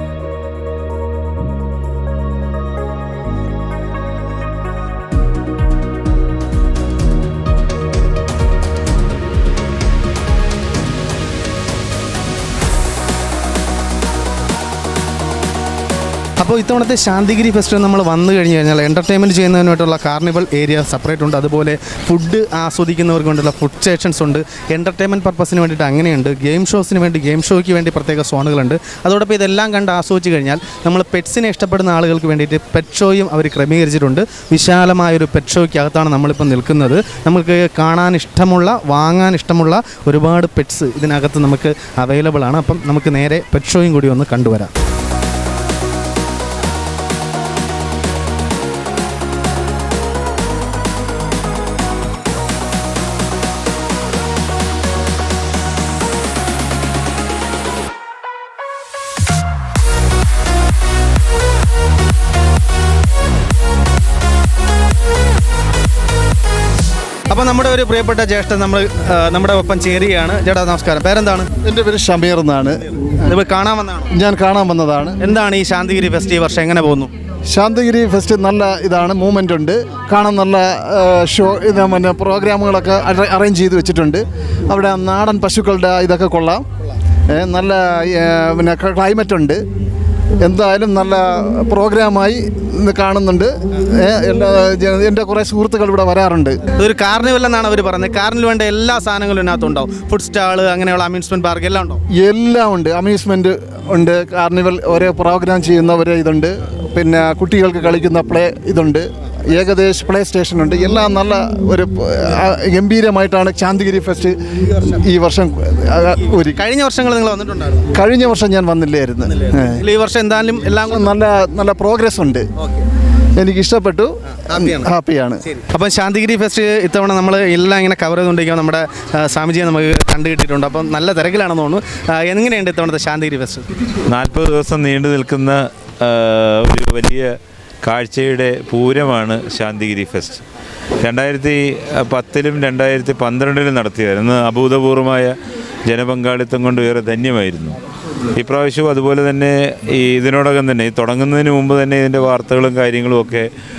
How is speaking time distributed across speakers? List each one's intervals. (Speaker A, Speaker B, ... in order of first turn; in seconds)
Speaker A: 16.4-44.7, 67.3-71.5, 73.2-74.1, 75.2-77.1, 96.8-102.0, 116.6-117.9, 119.4-121.1, 124.5-124.9, 125.5-133.7
Speaker B: 71.6-73.1, 74.1-75.2, 77.5-86.6, 87.3-89.6, 90.4-96.6, 102.2-116.6, 118.0-119.8, 120.9-122.4, 123.4-125.4
Speaker C: 134.1-137.3, 137.8-140.4, 141.0-145.3, 145.9-147.8, 148.4-153.5